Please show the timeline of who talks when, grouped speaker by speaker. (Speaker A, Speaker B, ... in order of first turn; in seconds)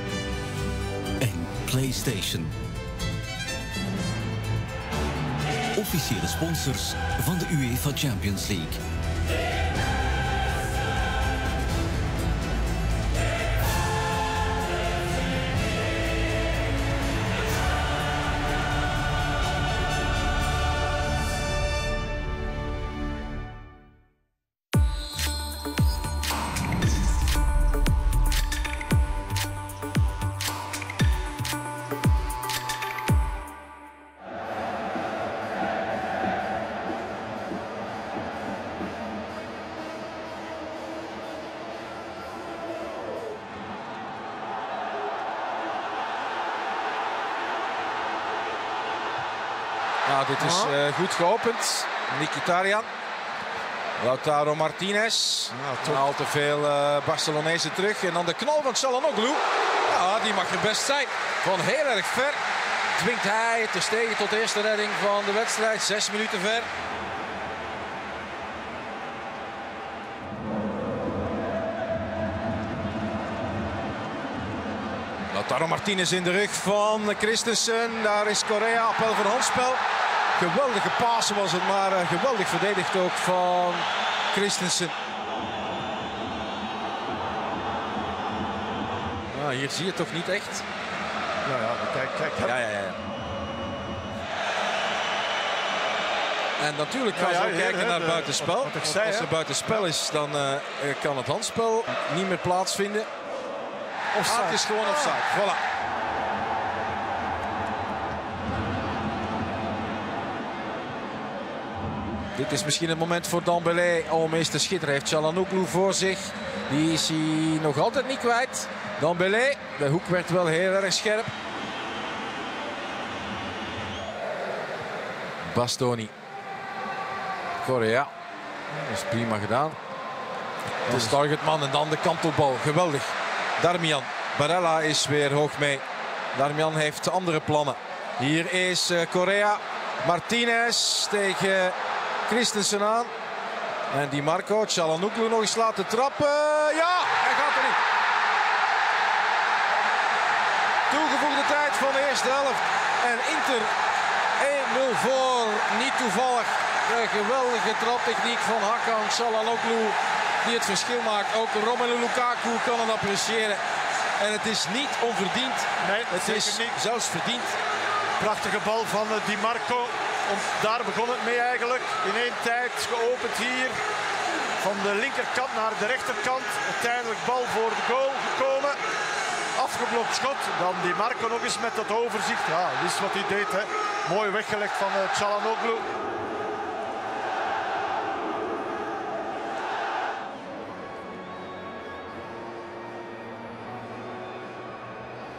Speaker A: 1.2-2.5, 5.7-8.8
Speaker B: 50.0-52.9, 54.0-62.4, 62.9-66.7, 75.3-79.8, 80.4-85.0, 89.3-90.6, 92.4-93.0, 96.6-103.1, 104.2-105.6, 112.3-121.3, 125.5-126.1, 127.6-128.1, 128.7-129.8, 130.9-135.8, 136.3-141.8, 142.3-143.1, 143.9-147.8, 150.9-153.7, 154.4-163.6, 164.2-167.6
Speaker C: 50.4-50.7, 55.5-56.1, 91.4-92.6, 97.1-99.3, 104.1-105.2, 165.8-166.8, 168.2-173.8, 174.6-178.8, 179.6-185.9